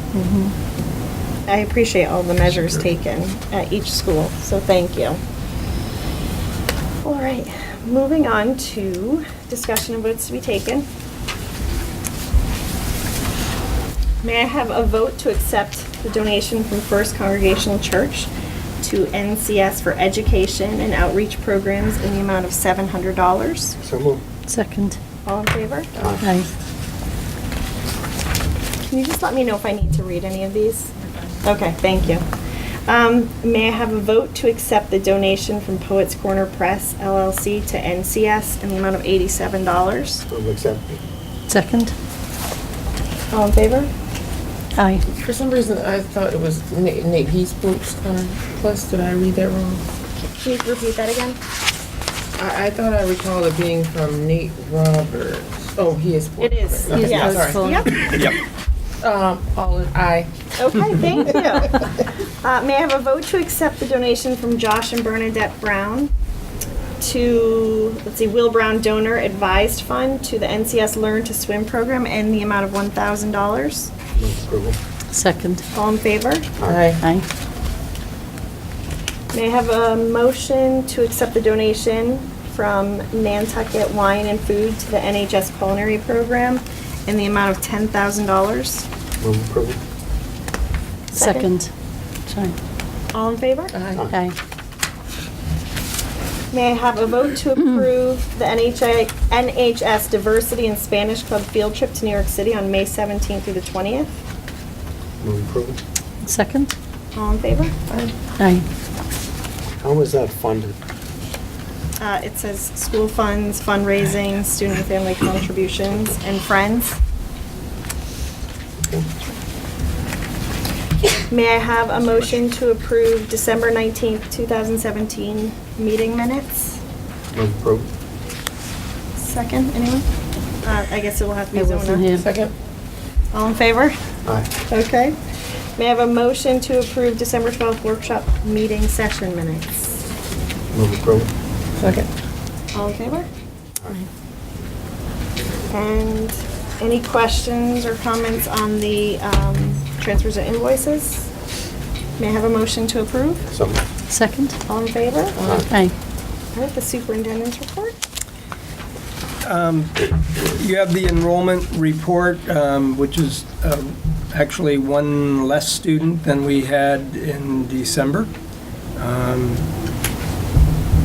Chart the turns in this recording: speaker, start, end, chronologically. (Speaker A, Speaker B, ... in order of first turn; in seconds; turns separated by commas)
Speaker A: 0.1-0.5, Speaker B: 1.5-5.2, Speaker B: 7.0-10.9, Speaker B: 14.2-18.3, Speaker B: 18.8-23.8, Speaker C: 23.8-24.2, Speaker A: 24.5-25.0, Speaker B: 25.2-25.9, Speaker C: 26.0-26.3, Speaker A: 26.2-26.5, Speaker B: 28.9-32.2, Speaker B: 32.9-40.2, Speaker C: 40.3-41.0, Speaker A: 41.5-41.9, Speaker B: 43.3-43.9, Speaker A: 44.8-45.0, Speaker D: 45.1-49.8, Speaker B: 50.3-51.4, Speaker D: 52.4-58.1, Speaker B: 56.4-58.2, Speaker A: 56.9-57.9, Speaker E: 58.1-58.4, Speaker D: 59.0-60.3, Speaker B: 60.6-66.1, Speaker B: 67.0-73.9, Speaker C: 74.2-74.8, Speaker A: 75.1-75.6, Speaker B: 75.8-76.5, Speaker C: 76.6-76.8, Speaker D: 76.6-77.0, Speaker B: 79.3-88.9, Speaker C: 89.2-89.8, Speaker B: 91.1-91.5, Speaker A: 91.1-91.7, Speaker A: 92.3-92.6, Speaker B: 93.1-93.7, Speaker D: 93.7-94.1, Speaker A: 94.1-94.3, Speaker B: 96.5-104.2, Speaker C: 105.2-105.8, Speaker A: 106.2-106.7, Speaker B: 107.2-107.7, Speaker A: 108.4-108.7, Speaker C: 109.8-110.8, Speaker B: 112.0-117.0, Speaker C: 118.8-119.1, Speaker B: 121.3-126.8, Speaker C: 127.3-127.9, Speaker B: 129.2-130.1, Speaker B: 130.6-132.2, Speaker A: 131.6-132.2, Speaker D: 132.1-132.5, Speaker B: 133.3-134.0, Speaker B: 134.7-135.2, Speaker B: 135.8-139.9, Speaker C: 140.7-141.3, Speaker D: 141.8-142.1, Speaker B: 142.7-143.3, Speaker B: 145.7-151.3, Speaker B: 152.2-153.5, Speaker C: 153.5-153.8, Speaker A: 154.1-154.6, Speaker B: 154.7-155.4, Speaker D: 155.4-155.7, Speaker C: 155.4-155.7, Speaker A: 155.7-155.9, Speaker B: 156.5-157.9, Speaker E: 159.4-168.3, Speaker E: 169.0-169.7